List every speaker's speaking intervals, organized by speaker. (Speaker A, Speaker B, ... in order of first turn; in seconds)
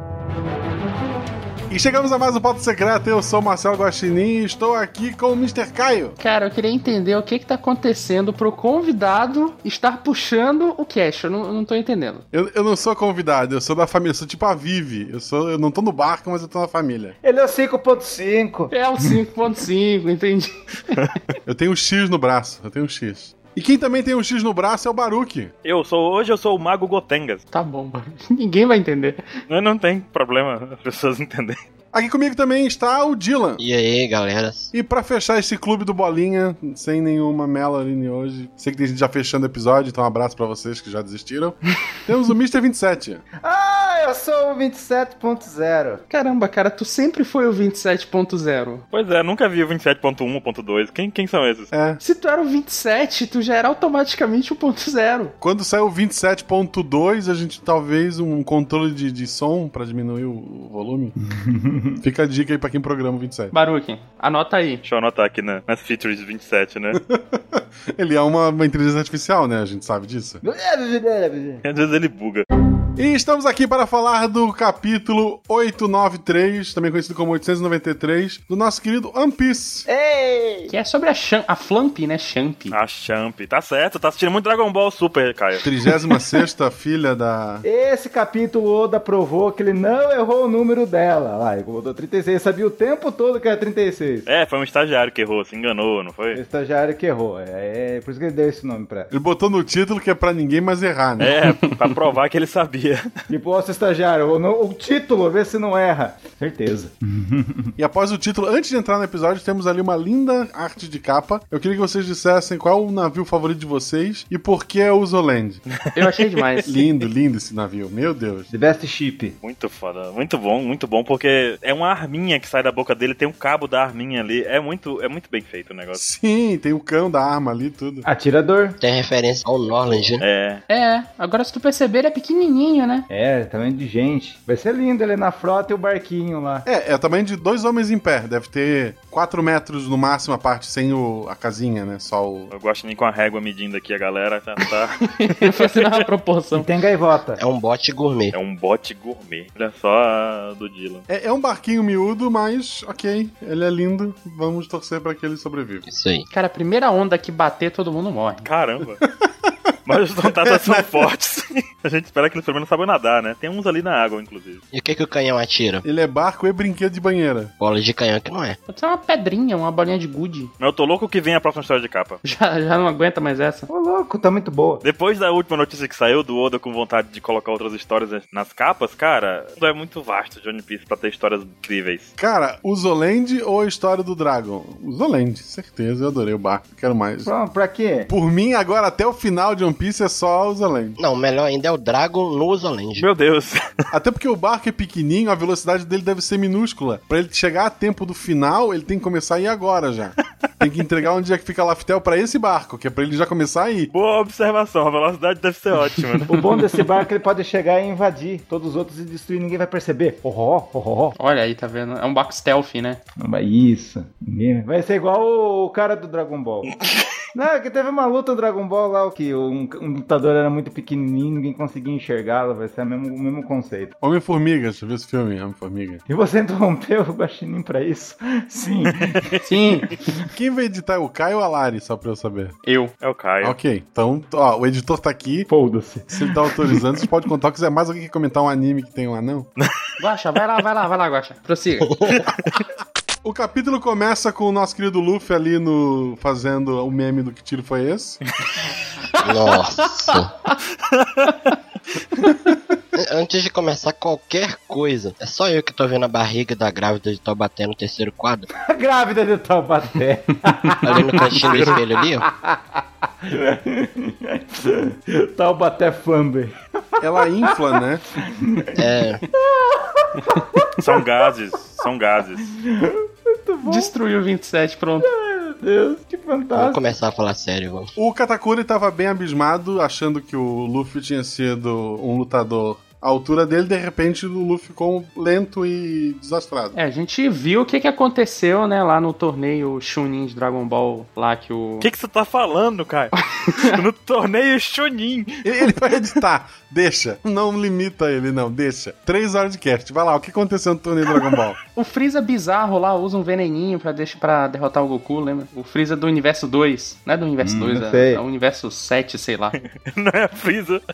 Speaker A: 1.7-6.2, 12.3-17.2, 21.5-25.5, 31.9-33.6, 34.7-43.2, 51.7-52.0, 55.4-61.1, 62.0-63.5, 66.9-70.4, 73.0-79.9, 85.6-87.6, 99.1-101.3, 107.8-115.6, 116.7-118.5, 126.0-128.1, 136.7-142.5, 151.1-155.8, 159.0-161.1, 165.8-167.5, 182.2-187.3, 188.1-191.0, 193.9-203.9, 224.0-226.0, 230.3-232.6, 233.4-235.5, 236.1-239.5, 243.2-248.2, 267.0-268.0, 278.0-286.8, 295.4-301.6
Speaker B: 6.2-12.2, 18.7-21.0, 27.5-29.2, 46.1-48.8, 52.0-55.3, 63.5-64.8, 80.7-82.8, 101.4-101.9, 116.0-116.8, 130.7-133.1, 145.2-146.7, 156.3-158.5, 168.7-170.5, 172.2-173.7, 211.2-213.0, 229.4-230.0, 232.7-232.9, 240.0-242.2, 249.2-250.2, 251.3-251.6, 273.6-275.1, 286.8-291.9, 293.4-293.8, 301.7-309.6
Speaker C: 17.2-19.1, 43.4-46.0, 61.2-62.0, 70.4-71.6, 79.9-80.7, 87.6-94.3, 96.3-99.1, 103.3-107.7, 118.5-119.4, 128.0-128.8, 133.1-136.7, 146.5-147.4, 173.7-174.8, 187.2-188.1, 206.3-211.2, 213.2-216.8, 217.3-223.9, 226.1-229.4, 235.5-236.7, 258.7-271.1, 272.5-273.9, 275.0-276.9, 307.4-308.2
Speaker D: 25.6-27.4, 29.5-31.6, 48.9-51.7, 64.8-67.0, 71.6-72.5, 82.7-85.7, 94.3-96.4, 101.2-103.1, 115.8-116.2, 119.4-126.0, 130.2-130.6, 142.5-146.0, 148.3-151.1, 158.4-159.0, 159.9-164.6, 170.6-172.2, 174.8-182.1, 193.0-193.6, 203.9-206.4, 233.0-233.6, 242.2-242.6, 250.9-251.3, 270.8-272.5, 291.8-295.8, 309.6-310.8
Speaker E: 33.6-34.7, 128.8-130.2, 147.4-148.4, 155.9-156.3, 164.7-165.8, 167.6-168.6, 191.0-193.1, 249.2-250.3, 253.0-258.5, 260.8-262.2, 268.8-269.2, 276.6-277.9